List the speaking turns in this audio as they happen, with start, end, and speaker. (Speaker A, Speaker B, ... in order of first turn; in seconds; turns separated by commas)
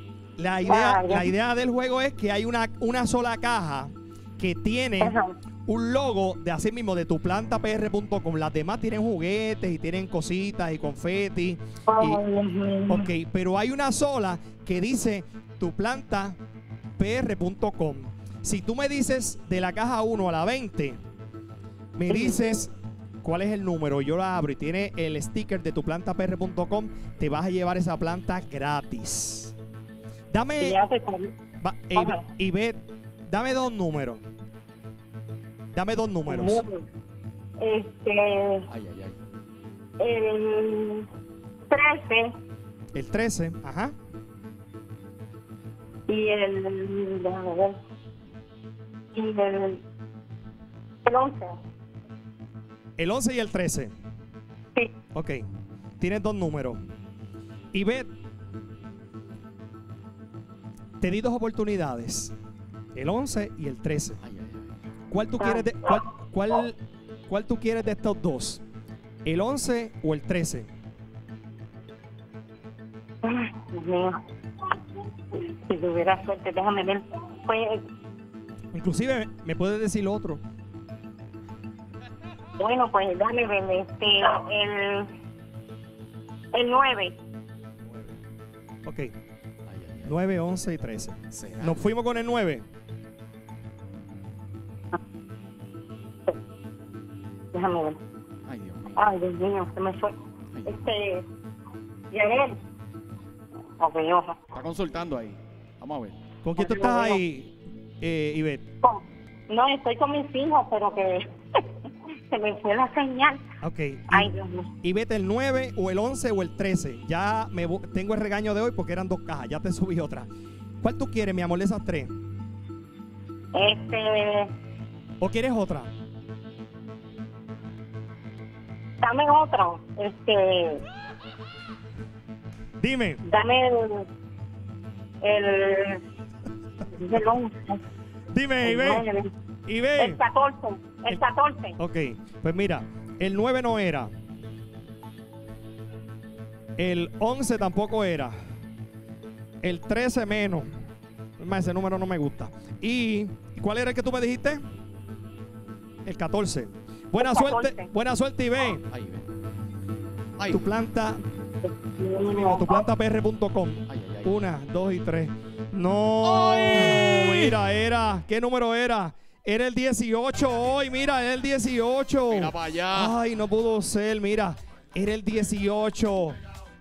Speaker A: 0.4-12.2, Speaker B: 0.7-1.3, Speaker B: 5.0-5.3, Speaker B: 11.9-13.1, Speaker A: 12.9-16.4, Speaker A: 17.0-21.0, Speaker A: 22.0-22.7, Speaker B: 22.1-22.4, Speaker A: 23.2-29.5, Speaker A: 30.3-30.8, Speaker B: 30.6-31.3, Speaker A: 31.6-34.2, Speaker B: 32.0-32.2, Speaker A: 35.7-36.6, Speaker B: 36.3-36.8, Speaker B: 37.6-38.7, Speaker C: 38.7-39.2, Speaker B: 40.0-41.1, Speaker B: 41.7-42.3, Speaker A: 42.9-44.0, Speaker B: 46.1-47.8, Speaker B: 49.1-49.8, Speaker B: 51.0-51.5, Speaker A: 53.0-53.9, Speaker A: 55.1-55.4, Speaker A: 56.0-56.8, Speaker A: 57.7-58.1, Speaker A: 61.0-62.3, Speaker A: 63.0-64.2, Speaker C: 64.2-64.7, Speaker A: 65.1-66.8, Speaker B: 65.4-65.7, Speaker A: 67.3-68.6, Speaker A: 69.2-70.7, Speaker B: 73.2-74.2, Speaker B: 75.3-77.8, Speaker A: 78.7-80.4, Speaker B: 82.6-85.1, Speaker B: 86.5-87.2, Speaker A: 88.8-89.1, Speaker C: 89.7-90.1, Speaker A: 90.0-92.7, Speaker C: 91.3-91.8, Speaker B: 97.5-98.0, Speaker C: 98.5-99.0, Speaker B: 99.0-100.2, Speaker B: 100.7-101.3, Speaker B: 102.1-102.6, Speaker B: 103.8-104.4, Speaker C: 104.5-106.2, Speaker A: 106.4-108.6, Speaker B: 106.6-107.2, Speaker B: 108.8-113.5, Speaker A: 113.6-120.3, Speaker B: 114.1-114.7, Speaker A: 120.8-122.1, Speaker B: 123.5-124.5, Speaker A: 125.2-125.9, Speaker B: 129.0-130.8, Speaker A: 132.8-133.2, Speaker B: 133.2-134.1, Speaker B: 135.2-136.0, Speaker B: 136.9-137.8, Speaker A: 138.3-139.0, Speaker B: 138.6-139.3, Speaker A: 139.7-140.2, Speaker B: 140.0-141.8, Speaker A: 141.8-144.1, Speaker A: 146.8-148.3, Speaker A: 149.6-150.7, Speaker A: 151.4-154.6, Speaker A: 156.1-158.8, Speaker B: 157.2-157.9, Speaker C: 158.9-159.2, Speaker C: 160.4-160.7, Speaker A: 160.5-161.2, Speaker B: 161.6-162.8, Speaker A: 162.3-176.4, Speaker C: 163.9-164.3, Speaker C: 166.2-167.6, Speaker C: 172.3-173.1